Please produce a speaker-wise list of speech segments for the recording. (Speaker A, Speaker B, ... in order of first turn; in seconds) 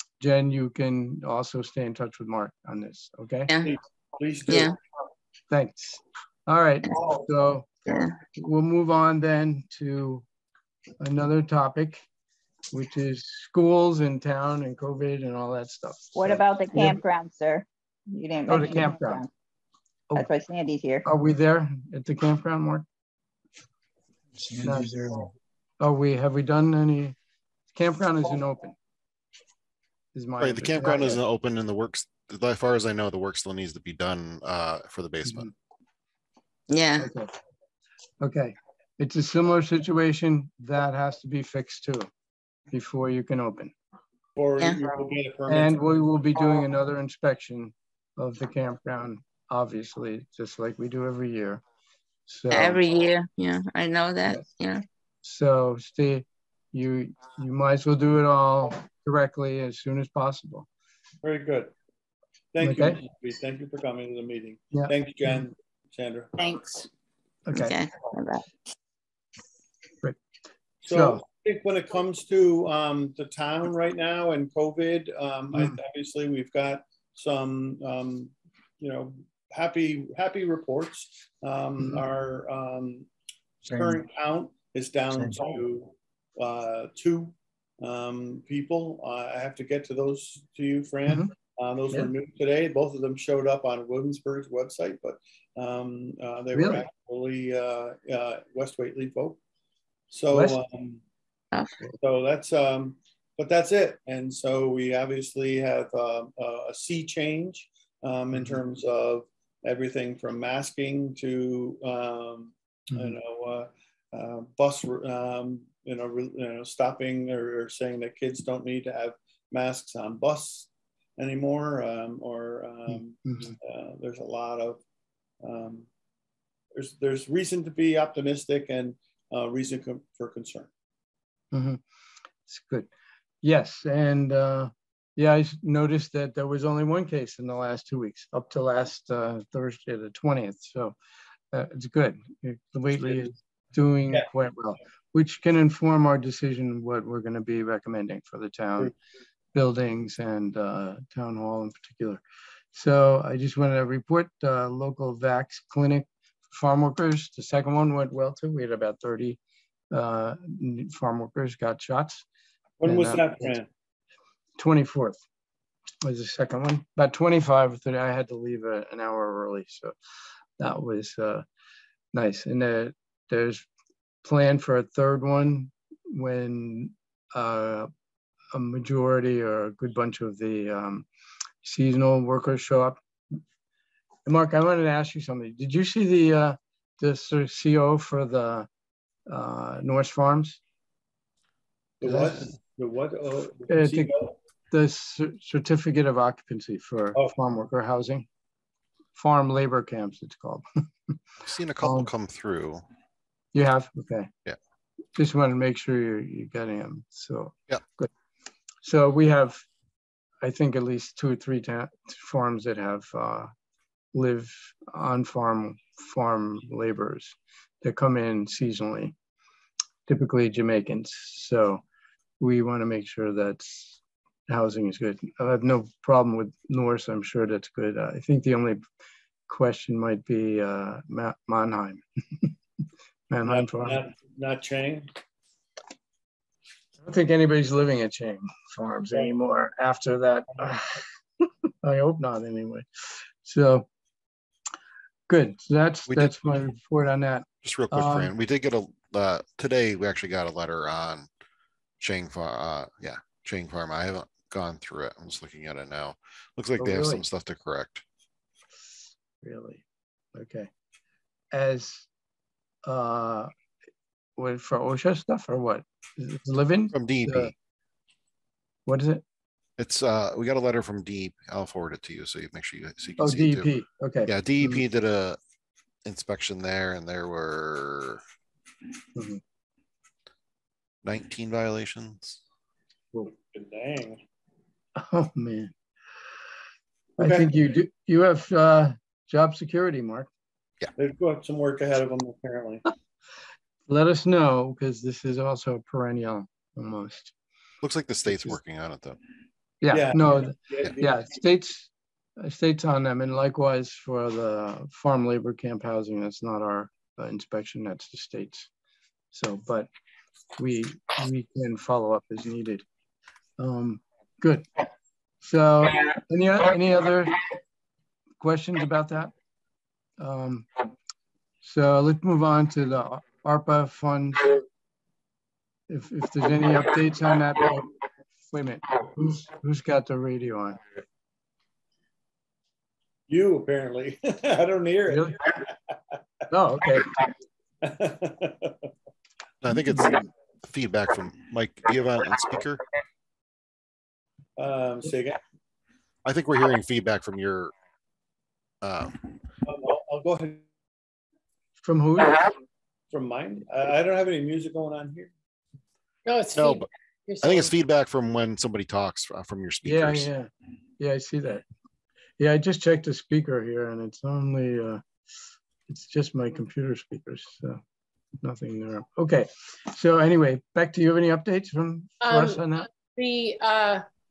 Speaker A: 0.2-3.5, 5.5-7.7, 8.3-10.2, 11.0-12.0, 12.7-17.0, 18.5-19.2, 21.1-22.9, 24.5-25.3, 25.8-27.2, 27.7-28.8, 30.1-31.2, 35.2-35.5, 37.0-37.3, 38.2-42.1, 42.7-43.7, 45.5-51.6, 52.3-52.8, 55.2-60.7, 62.6-63.0, 67.5-67.8, 70.9-71.2, 91.1-91.3, 96.5-96.8, 100.3-100.6, 108.3-108.6, 122.9-123.5, 131.5-131.8, 132.5-132.9, 133.4-141.0, 141.5-148.9, 149.5-152.2, 152.7-159.4, 159.9-162.2, 162.9-163.6, 164.6-165.2, 166.0-169.9, 170.6-171.4, 172.1-173.7, 174.2-177.9, 178.5-181.1, 181.6-183.4, 184.3-188.7, 189.3-190.6, 192.0-192.5, 193.7-194.1, 194.7-198.3, 199.2-201.2, 201.8-202.1, 203.5-204.3, 205.2-208.1, 208.8-209.7, 210.4-213.5, 214.1-219.1, 220.1-221.8, 222.4-228.8, 229.5-232.6, 233.3-234.0, 237.0-241.0, 241.8-243.9, 245.3-248.3, 256.8-257.2, 259.4-260.7, 261.5-262.1, 262.9-263.5, 264.4-267.5, 268.9-269.2, 273.2-274.8, 279.2-279.4, 285.0-285.7, 287.2-290.3, 293.9-297.3, 298.3-298.6, 299.8-308.7, 309.3-309.9, 310.6-312.9, 313.6-314.7, 315.4-317.4, 318.4-319.3, 320.2-320.7, 321.6-324.6, 325.9-327.9, 328.5-330.9, 335.1-335.4, 336.5-337.2, 339.7-340.2, 351.8-352.5, 359.9-361.6, 362.4-365.0, 365.9-367.8, 368.4-372.9
Speaker B: 3.6-4.7, 44.4-45.8, 61.2-61.7, 62.5-66.9, 70.8-83.1, 83.7-99.4, 100.1-101.0, 102.0-124.8, 125.4-125.9, 126.7-130.7, 143.0-143.3, 162.8-163.7, 192.0-194.3, 233.4-235.1, 283.5-284.2, 287.2-287.5, 291.0-292.8, 299.9-301.3, 333.3-335.9, 337.8-338.9, 344.6-345.4, 349.6-350.7, 353.1-355.3
Speaker C: 4.5-4.8, 7.9-8.1, 36.7-37.1, 44.6-44.9, 52.5-54.8, 67.5-68.5
Speaker D: 16.1-19.3, 20.1-21.1
Speaker E: 30.4-35.5, 201.4-202.8, 246.1-246.3, 247.6-251.3, 252.0-258.0, 266.9-267.5, 269.8-273.7, 274.3-275.4, 276.1-278.2, 281.0-282.4, 297.8-299.2, 339.6-342.8, 346.2-347.7, 348.8-349.2, 356.6-356.9, 357.4-360.3
Speaker F: 356.3-357.7, 372.2-374.1